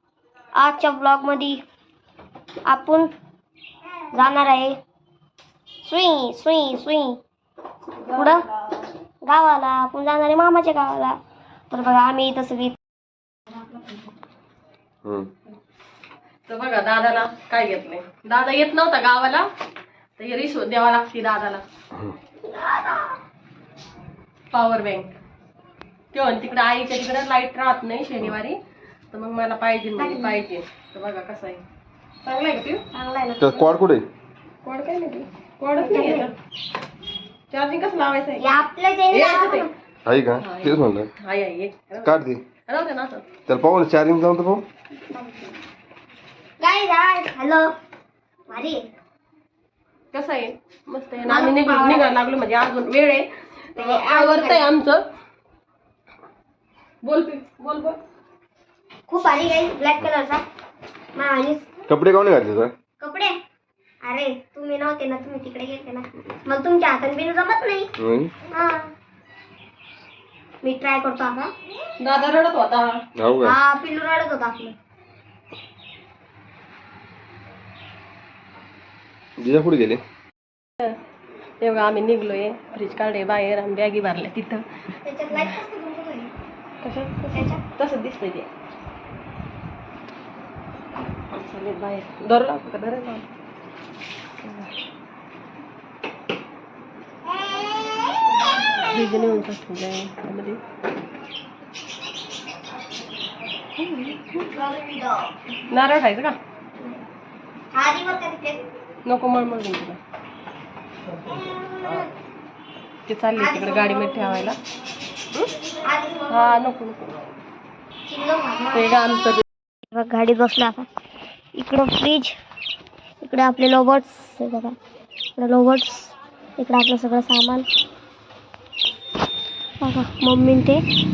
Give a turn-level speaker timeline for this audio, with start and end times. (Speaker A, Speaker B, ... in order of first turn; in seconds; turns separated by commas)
Speaker A: 0.6-1.6, Speaker A: 2.7-3.1, Speaker A: 4.1-4.8, Speaker A: 5.8-7.2, Speaker A: 8.1-8.4, Speaker A: 9.2-11.2, Speaker A: 11.7-12.8, Speaker B: 15.0-15.3, Speaker C: 16.5-19.5, Speaker C: 20.2-21.6, Speaker A: 22.5-23.1, Speaker C: 24.5-25.1, Speaker C: 26.1-28.6, Speaker C: 29.1-31.6, Speaker A: 30.0-30.4, Speaker C: 32.2-32.8, Speaker A: 32.9-33.5, Speaker B: 33.4-34.0, Speaker C: 34.6-36.3, Speaker A: 35.8-36.3, Speaker C: 37.5-38.5, Speaker A: 38.4-39.7, Speaker C: 39.1-39.7, Speaker B: 40.0-41.1, Speaker C: 40.4-42.1, Speaker B: 42.0-42.4, Speaker C: 42.7-43.2, Speaker B: 43.5-44.6, Speaker A: 45.1-45.5, Speaker A: 46.6-47.7, Speaker A: 48.5-48.9, Speaker C: 50.1-55.0, Speaker A: 51.2-52.2, Speaker A: 53.8-54.7, Speaker C: 57.0-58.0, Speaker A: 59.1-60.4, Speaker A: 61.1-61.7, Speaker B: 61.9-62.7, Speaker A: 63.0-63.4, Speaker A: 64.0-67.9, Speaker B: 68.0-68.3, Speaker A: 68.5-68.9, Speaker A: 70.6-71.5, Speaker C: 72.0-73.0, Speaker B: 73.2-73.5, Speaker A: 73.4-74.7, Speaker B: 79.4-80.0, Speaker C: 81.6-84.6, Speaker A: 85.0-86.3, Speaker C: 86.8-88.5, Speaker A: 87.3-87.6, Speaker C: 91.3-93.2, Speaker C: 94.4-94.7, Speaker C: 98.9-100.6, Speaker C: 103.8-104.3, Speaker A: 104.4-105.3, Speaker C: 105.7-106.4, Speaker A: 107.7-108.6, Speaker C: 109.0-110.0, Speaker A: 111.6-112.0, Speaker C: 113.1-114.6, Speaker A: 113.3-114.5, Speaker A: 115.8-116.6, Speaker C: 116.3-117.0, Speaker A: 118.0-119.0, Speaker C: 118.7-119.4, Speaker A: 119.9-120.9, Speaker A: 121.5-122.3, Speaker A: 123.2-124.7, Speaker A: 125.4-127.7, Speaker A: 129.8-130.8